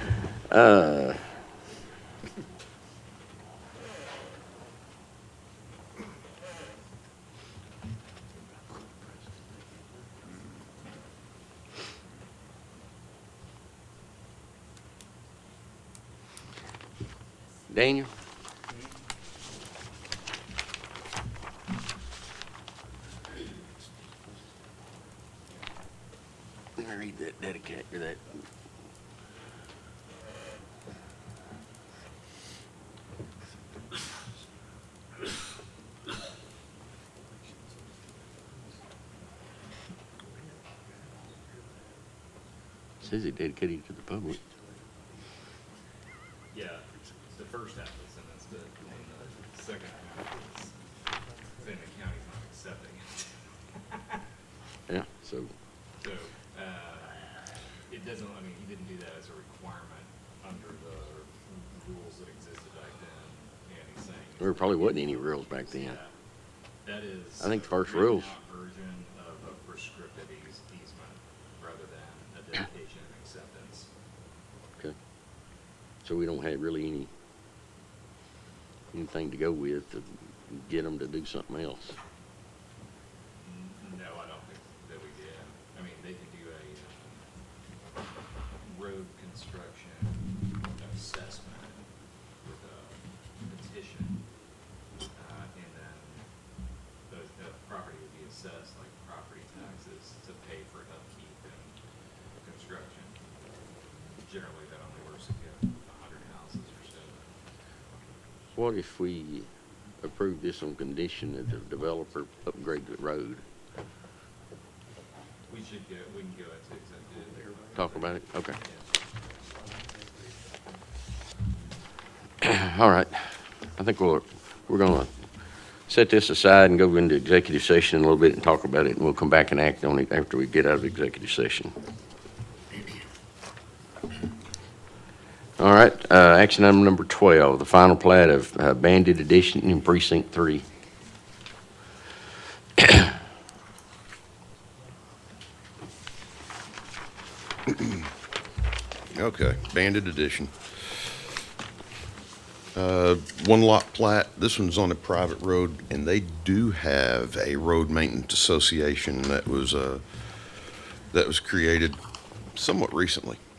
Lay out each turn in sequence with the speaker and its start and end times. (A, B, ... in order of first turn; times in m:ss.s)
0:00.5-0:01.2 A
0:17.7-0:18.1 A
0:26.8-0:28.2 A
0:43.0-0:44.4 A
0:46.5-0:50.8 B
0:51.6-0:54.2 B
0:54.9-0:55.5 A
0:56.0-0:57.3 B
0:57.9-1:06.2 B
1:04.4-1:06.0 A
1:06.8-1:13.9 B
1:07.4-1:08.3 A
1:16.0-1:17.1 A
1:18.9-1:22.0 A
1:23.4-1:27.2 B
1:28.6-1:31.9 B
1:32.4-1:34.2 B
1:35.2-1:36.3 B
1:37.1-1:41.8 B
1:42.4-1:43.2 B
1:44.2-1:47.3 B
1:48.6-1:49.5 A
1:50.0-1:53.4 A
1:55.5-1:58.8 B
1:57.7-1:58.6 A
2:02.4-2:03.2 A
2:03.8-2:05.1 A
2:05.9-2:11.7 A
2:15.6-2:20.6 A
2:29.1-2:30.5 C
2:32.8-2:40.0 C
2:41.1-2:42.0 C
2:42.6-2:43.4 C